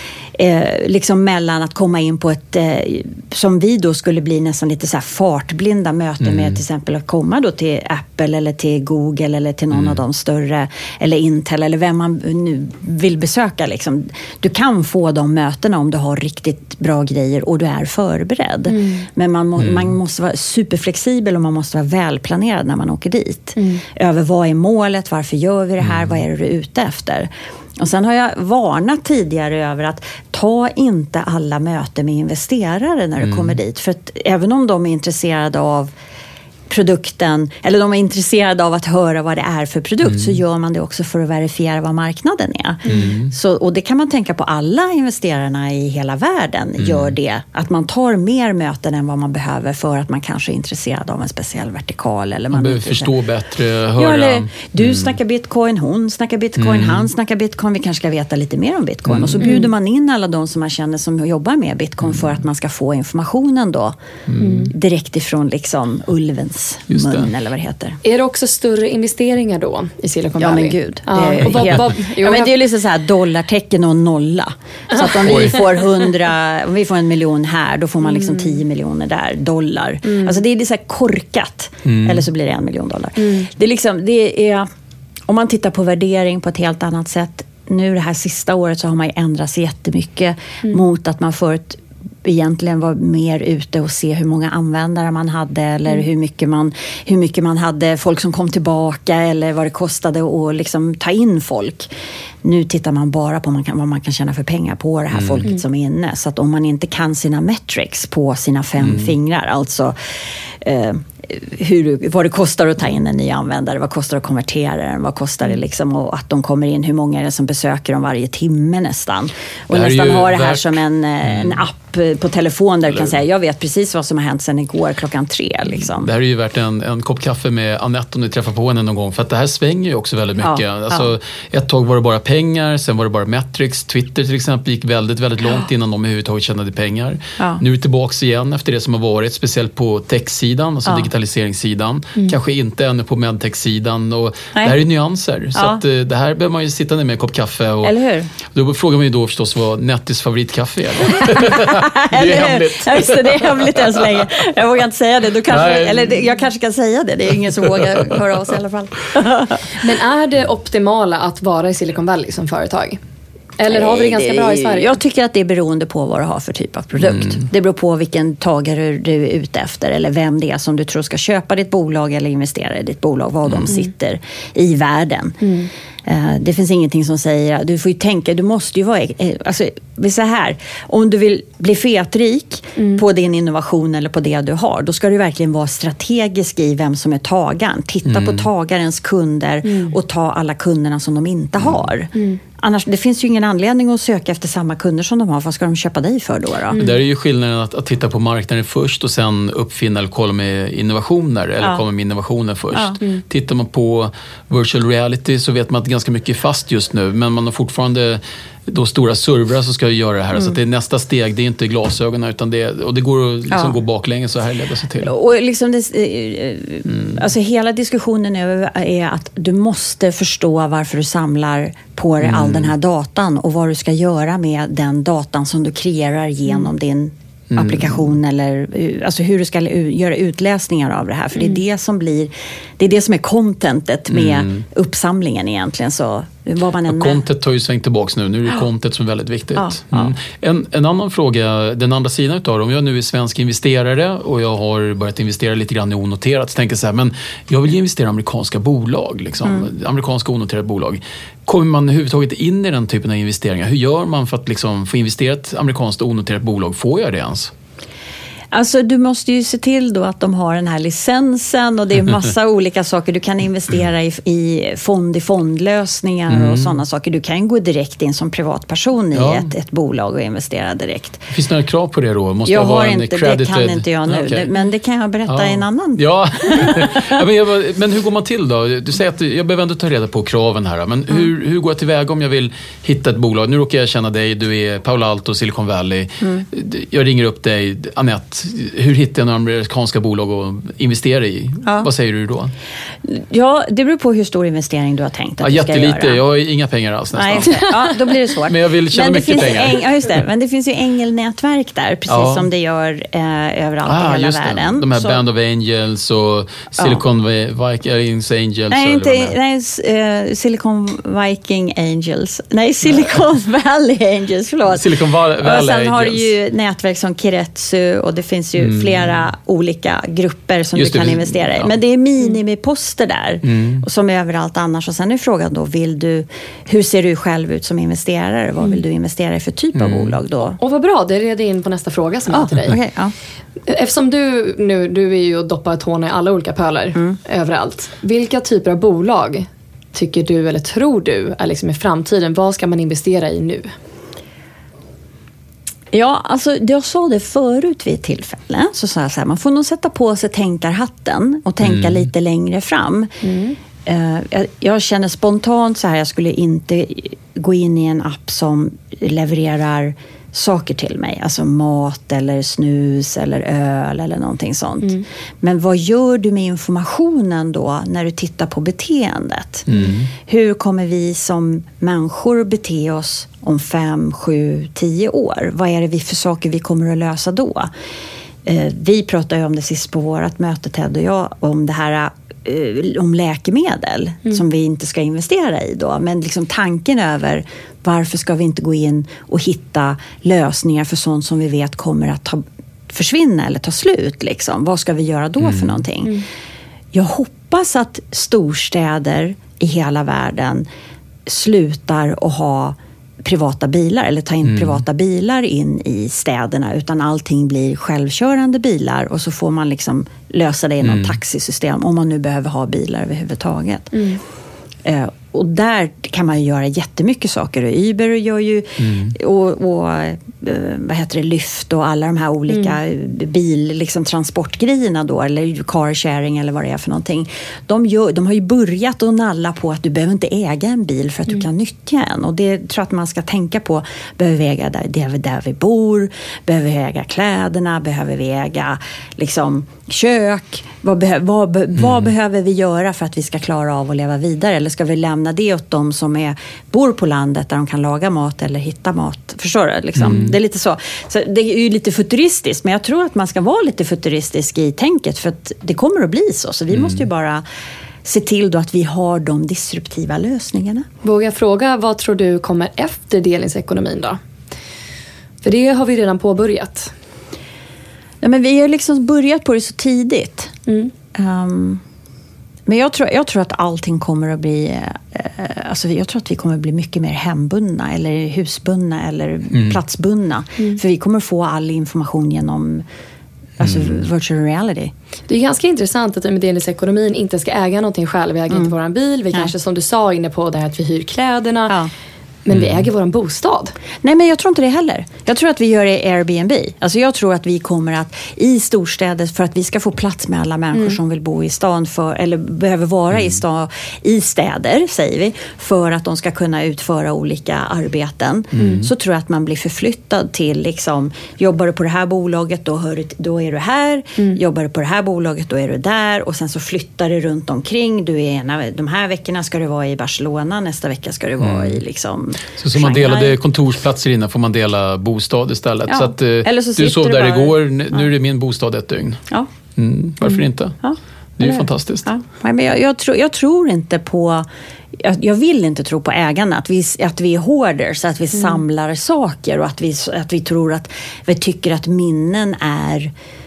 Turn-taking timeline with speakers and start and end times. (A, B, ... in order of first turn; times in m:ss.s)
0:00.4-0:35.9 A
0:06.2-0:06.6 B
0:09.7-0:10.0 B
0:18.7-0:19.1 C
0:19.6-0:19.9 B
0:23.6-0:23.8 C
0:25.8-0:26.2 B
0:33.2-0:33.6 B
0:36.7-0:53.1 A
0:40.0-0:40.4 B
0:42.8-0:43.2 C
0:42.9-0:43.3 B
0:46.8-0:47.1 B
0:52.5-0:55.2 B
0:54.0-1:04.0 A
0:56.6-0:57.1 B
0:59.1-0:59.6 B
0:59.4-0:59.7 C
1:02.0-1:02.4 B
1:04.3-1:04.7 B
1:04.4-1:04.7 C
1:04.7-1:08.0 A
1:06.9-1:07.3 B
1:08.0-1:12.6 C
1:10.4-1:24.7 A
1:11.5-1:11.8 B
1:15.0-1:15.3 C
1:15.2-1:15.8 B
1:18.0-1:18.6 C
1:20.0-1:20.4 C
1:21.8-1:22.2 B
1:23.2-1:23.5 C
1:25.3-1:41.9 A
1:42.4-1:50.0 A
1:45.1-1:45.5 B
1:48.8-1:49.1 B
1:50.6-2:06.1 A
1:59.7-2:01.6 B
2:06.0-2:34.2 B
2:10.4-2:11.1 A
2:25.6-2:25.8 A
2:27.8-2:28.3 A
2:31.2-2:39.7 A
2:35.5-2:36.2 B
2:37.6-2:38.5 B
2:39.8-2:43.0 C
2:43.6-2:44.9 C
2:43.7-2:55.4 A
2:47.0-2:47.4 B
2:55.4-2:55.7 C
2:56.1-3:16.8 A
3:02.8-3:03.0 C
3:08.1-3:08.5 B
3:09.6-3:10.0 C
3:12.2-3:12.4 C
3:16.7-3:17.0 C
3:16.8-3:35.1 B
3:22.7-3:23.0 A
3:33.5-3:33.8 A
3:35.0-3:57.2 A
3:36.9-3:37.2 B
3:42.2-3:42.7 B
3:47.5-3:48.1 B
3:51.4-3:51.6 C
3:54.1-3:54.6 B
3:56.9-4:17.5 B
3:59.6-4:00.2 A
4:18.5-4:31.3 A
4:26.3-4:26.8 B
4:29.1-4:29.5 B
4:31.3-4:34.5 B
4:32.5-4:37.2 A
4:35.3-4:52.5 B
4:53.0-4:56.2 A
4:55.4-4:57.7 B
4:57.2-5:05.2 A
4:58.5-5:00.1 B
5:02.1-5:02.5 B
5:03.9-5:09.4 B
5:06.8-5:07.0 A
5:08.7-5:30.6 A
5:14.8-5:16.3 B
5:18.6-5:19.2 B
5:20.8-5:21.7 B
5:23.4-5:23.8 B
5:29.8-5:30.2 B
5:30.6-5:32.8 C
5:32.3-5:33.1 A
5:33.7-5:43.7 C
5:45.9-5:53.1 A
5:51.6-5:52.0 B
5:53.2-5:53.6 C
5:53.9-6:09.7 A
6:09.7-6:10.1 B
6:10.2-6:17.7 A
6:18.4-6:36.2 A
6:35.4-6:35.8 B
6:36.9-6:40.6 A
6:41.3-6:54.0 A
6:44.4-6:44.8 B
6:50.8-6:51.2 B
6:53.9-6:54.2 C
6:54.8-7:37.4 A
6:58.8-6:59.2 B
7:02.5-7:02.8 C
7:21.8-7:22.1 B
7:30.0-7:30.4 B
7:36.7-7:37.0 B
7:38.0-7:40.9 A
7:41.0-7:44.2 C
7:45.4-7:46.9 C
7:48.2-7:50.5 A
7:50.7-7:50.9 C
7:51.2-7:51.8 A
7:52.7-8:02.8 A
7:59.5-7:59.8 B
8:03.6-8:04.9 A
8:03.6-8:04.0 B
8:05.3-8:11.8 C
8:12.4-8:13.7 C
8:12.5-8:12.9 B
8:14.0-8:43.4 A
8:20.7-8:21.0 C
8:23.1-8:23.4 B
8:28.6-8:28.9 B
8:28.6-8:28.9 C
8:41.4-8:41.8 B
8:42.6-8:49.2 B
8:45.9-8:48.1 A
8:49.8-8:50.8 B
8:50.8-8:54.4 A
8:51.4-8:52.1 B
8:55.0-9:03.1 A
8:58.3-8:58.6 C